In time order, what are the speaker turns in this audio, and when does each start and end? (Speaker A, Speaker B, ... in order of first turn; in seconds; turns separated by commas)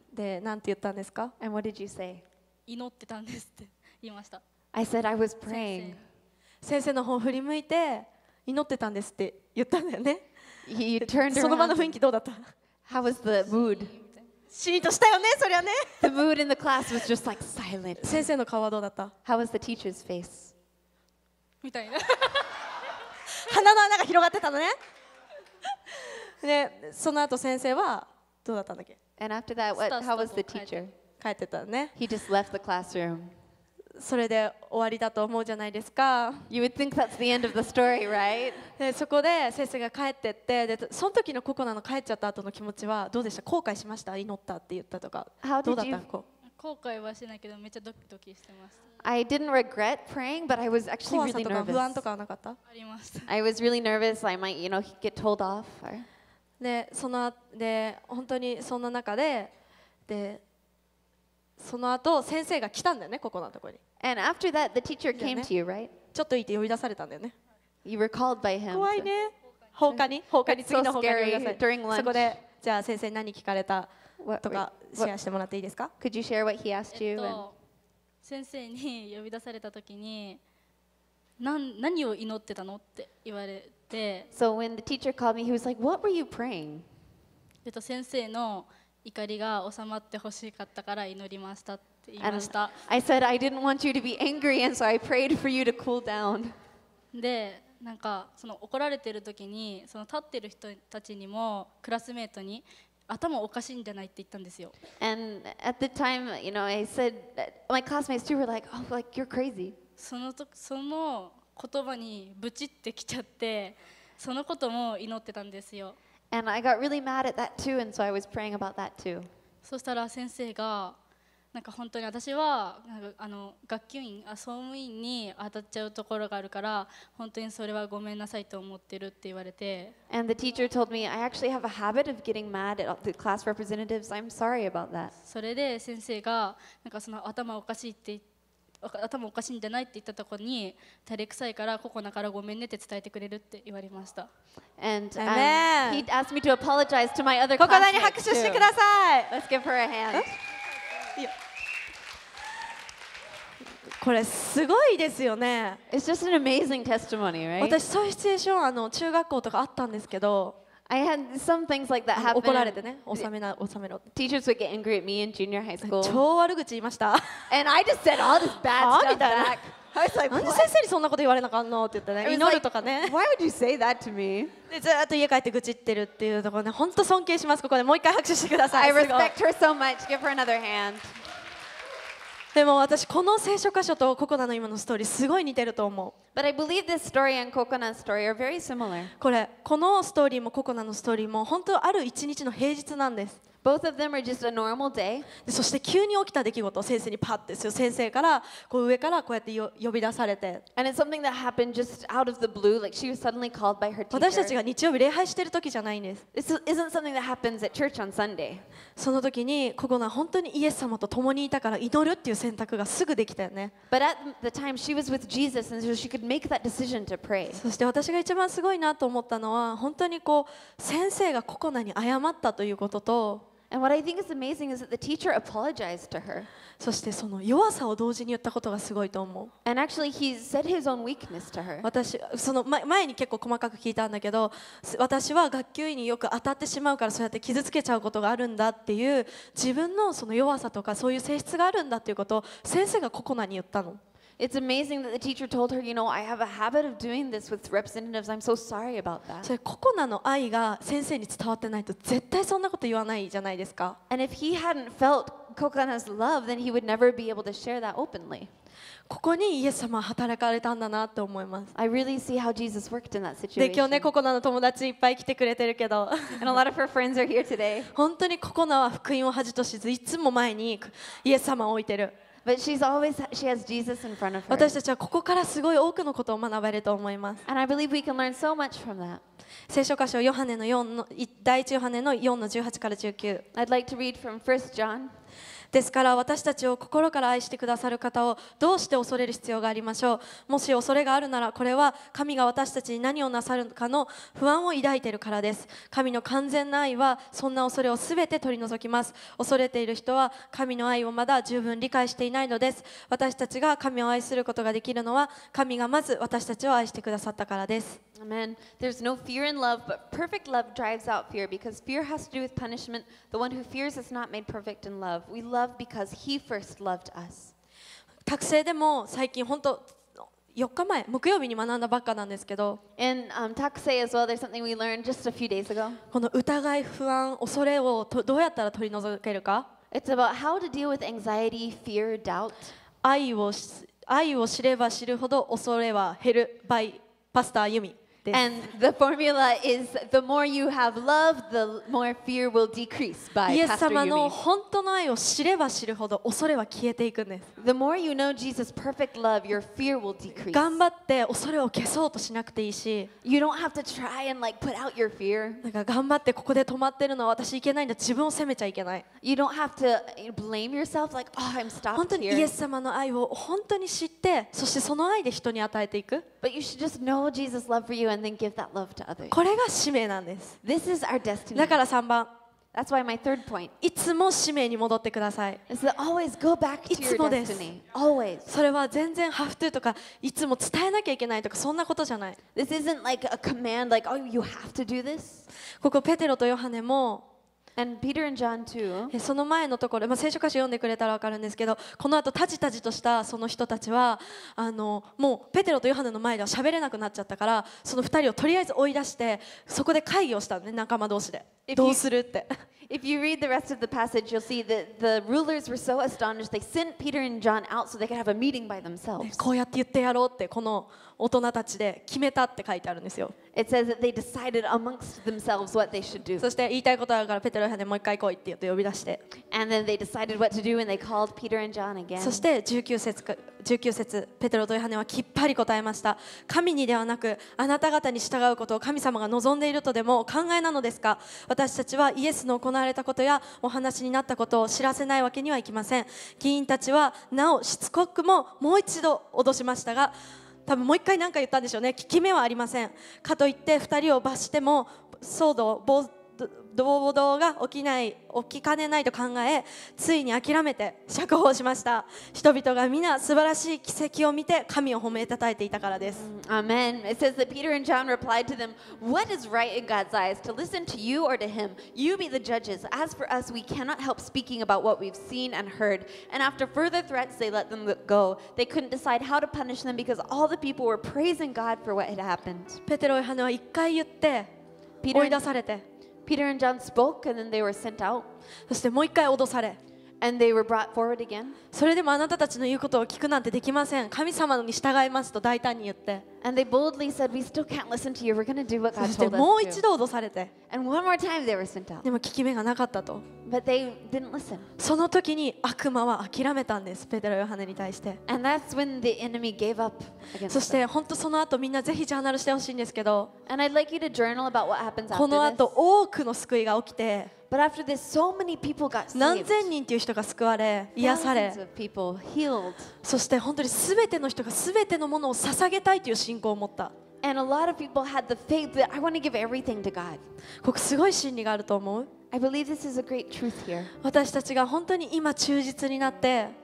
Speaker A: 0.1-1.3, Speaker B: 1.4-2.2, Speaker C: 2.7-4.4, Speaker B: 4.7-6.0, Speaker C: 5.5-6.0, Speaker A: 6.6-10.2, Speaker B: 10.7-12.0, Speaker A: 11.0-12.5, Speaker B: 12.9-14.0, Speaker A: 14.5-16.0, Speaker B: 16.0-18.3, Speaker A: 18.0-19.1, Speaker B: 19.2-20.5, Speaker C: 21.6-22.7, Speaker A: 23.3-24.8, Speaker A: 26.4-29.0, Speaker B: 29.2-30.9, Speaker C: 29.8-30.7, Speaker A: 31.2-31.9, Speaker B: 31.9-33.3, Speaker A: 34.0-36.5, Speaker B: 36.5-38.7, Speaker A: 38.8-46.2, Speaker B: 45.4-46.0, Speaker C: 46.6-48.8, Speaker B: 49.0-52.0, Speaker A: 51.1-52.6, Speaker C: 52.7-53.3, Speaker B: 53.3-56.1, Speaker A: 56.6-59.5, Speaker A: 60.1-60.4, Speaker A: 61.6-63.8, Speaker B: 64.0-65.9, Speaker A: 65.1-65.5, Speaker A: 66.1-67.3, Speaker B: 67.8-69.1, Speaker A: 68.7-73.9, Speaker B: 69.9-72.4, Speaker B: 74.2-75.1, Speaker A: 74.4-75.9, Speaker B: 76.0-77.4, Speaker C: 76.9-77.5, Speaker C: 78.2-80.4, Speaker C: 81.4-84.3, Speaker B: 84.3-86.8, Speaker C: 87.6-92.8, Speaker B: 92.2-96.5, Speaker C: 97.1-104.7, Speaker B: 105.0-109.8, Speaker C: 110.0-116.0, Speaker B: 116.3-119.3, Speaker C: 119.6-121.0, Speaker C: 121.5-129.9, Speaker B: 130.1-135.1, Speaker C: 135.2-138.2, Speaker C: 138.8-144.3, Speaker B: 144.8-148.7, Speaker A: 145.2-146.0, Speaker A: 147.6-149.3, Speaker B: 149.3-150.3, Speaker A: 154.0-155.8, Speaker B: 155.9-157.8, Speaker A: 157.6-160.5, Speaker B: 160.9-163.3, Speaker A: 162.1-164.0, Speaker B: 164.1-166.2, Speaker A: 165.8-167.5, Speaker B: 167.5-170.7, Speaker A: 168.7-169.6, Speaker A: 170.3-173.1, Speaker B: 172.2-174.5, Speaker A: 174.7-179.3, Speaker B: 178.7-181.2, Speaker A: 182.5-186.1, Speaker B: 186.3-189.1, Speaker A: 189.2-193.4, Speaker B: 193.6-195.3, Speaker A: 195.4-200.6, Speaker B: 200.8-204.5, Speaker A: 204.1-206.2, Speaker B: 206.3-208.6, Speaker A: 209.0-213.7, Speaker B: 213.9-217.6, Speaker A: 217.5-223.4, Speaker B: 223.7-226.5, Speaker A: 226.8-229.5, Speaker B: 229.6-231.9, Speaker A: 231.8-244.0, Speaker B: 244.4-249.5, Speaker A: 249.4-254.0, Speaker B: 254.1-258.5, Speaker A: 259.1-261.7, Speaker B: 261.7-264.1, Speaker A: 263.6-266.6, Speaker B: 266.4-267.9, Speaker A: 267.9-272.1, Speaker B: 272.4-274.8, Speaker A: 274.5-277.4, Speaker B: 277.4-279.2, Speaker A: 279.7-283.4, Speaker B: 283.5-285.1, Speaker A: 285.7-308.0, Speaker B: 308.1-317.5, Speaker A: 318.2-322.8, Speaker B: 323.0-326.0, Speaker A: 326.1-329.6, Speaker B: 329.9-332.7, Speaker A: 333.0-338.5, Speaker B: 338.3-344.4, Speaker A: 343.5-347.5, Speaker B: 347.6-350.8, Speaker A: 350.5-353.1, Speaker B: 353.2-355.6, Speaker A: 355.6-359.0, Speaker B: 359.2-362.5, Speaker A: 361.9-366.2, Speaker B: 366.4-369.4, Speaker A: 369.3-370.6, Speaker B: 370.6-371.8, Speaker A: 371.5-372.3, Speaker B: 372.7-373.7, Speaker A: 373.8-375.6, Speaker B: 375.7-378.5, Speaker A: 376.9-377.7, Speaker A: 378.4-382.4, Speaker B: 382.5-385.5, Speaker A: 385.8-387.2, Speaker B: 387.8-389.1, Speaker A: 389.1-402.6, Speaker B: 401.7-402.0, Speaker B: 402.9-409.5, Speaker A: 409.2-413.3, Speaker B: 413.5-416.5, Speaker A: 416.4-419.2, Speaker B: 419.5-422.4, Speaker A: 422.2-440.1, Speaker A: 440.6-456.2, Speaker B: 456.1-472.8, Speaker A: 472.9-474.5, Speaker B: 475.0-475.4, Speaker A: 475.1-475.8, Speaker B: 476.2-478.3, Speaker A: 478.7-479.8, Speaker B: 480.2-481.6, Speaker A: 481.7-486.2, Speaker B: 486.4-489.8, Speaker A: 488.9-490.5, Speaker B: 490.7-492.1, Speaker A: 492.0-493.2, Speaker B: 493.4-494.7, Speaker A: 494.8-498.2, Speaker B: 498.3-500.9, Speaker A: 500.5-503.3, Speaker B: 503.5-505.7, Speaker A: 505.1-507.3, Speaker B: 507.5-509.7, Speaker A: 509.1-511.6, Speaker B: 510.9-512.9, Speaker A: 513.0-516.9, Speaker B: 517.2-520.2, Speaker A: 520.6-522.1, Speaker B: 522.3-523.9, Speaker A: 524.0-526.5